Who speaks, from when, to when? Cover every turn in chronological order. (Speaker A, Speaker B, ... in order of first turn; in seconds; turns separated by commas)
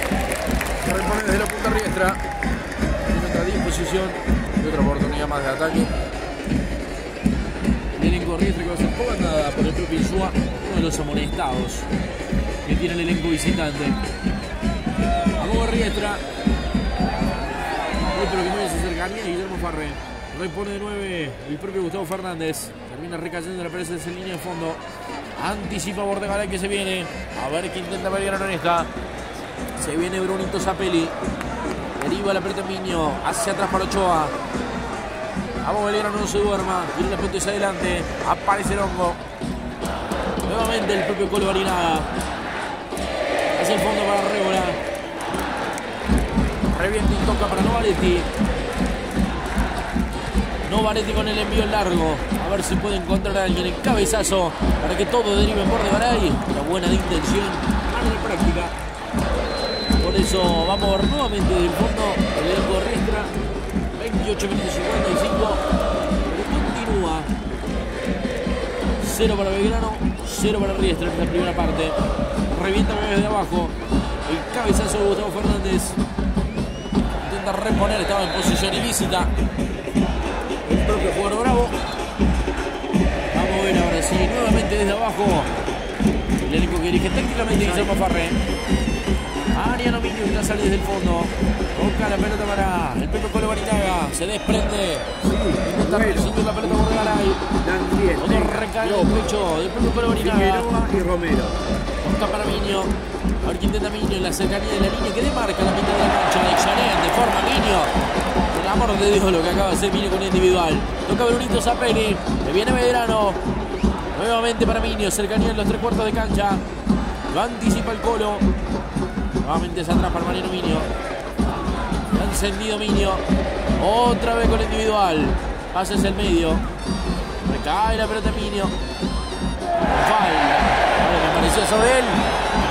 Speaker A: 0.8-2.2, Speaker A: 3.0-5.9, Speaker A: 8.0-11.9, Speaker A: 12.6-14.0, Speaker A: 15.3-16.2, Speaker A: 18.1-24.8, Speaker A: 25.4-28.9, Speaker A: 29.8-31.1, Speaker A: 31.9-34.3, Speaker A: 35.6-39.2, Speaker A: 40.4-42.1, Speaker A: 43.5-44.8, Speaker A: 46.7-48.3, Speaker A: 50.6-58.7, Speaker A: 60.0-63.3, Speaker A: 63.9-65.6, Speaker A: 66.2-67.3, Speaker A: 69.0-72.0, Speaker A: 72.5-73.7, Speaker A: 74.2-76.0, Speaker A: 77.2-79.3, Speaker A: 80.6-81.8, Speaker A: 83.3-85.5, Speaker A: 86.4-88.4, Speaker B: 87.6-87.9, Speaker A: 89.5-95.1, Speaker B: 95.2-99.3, Speaker A: 95.6-97.5, Speaker A: 98.2-100.7, Speaker B: 100.1-101.6, Speaker A: 102.0-107.9, Speaker A: 108.5-113.4, Speaker A: 114.1-116.6, Speaker A: 117.3-118.5, Speaker A: 119.4-120.9, Speaker A: 122.1-123.2, Speaker A: 123.8-126.6, Speaker A: 127.4-128.7, Speaker A: 129.8-132.2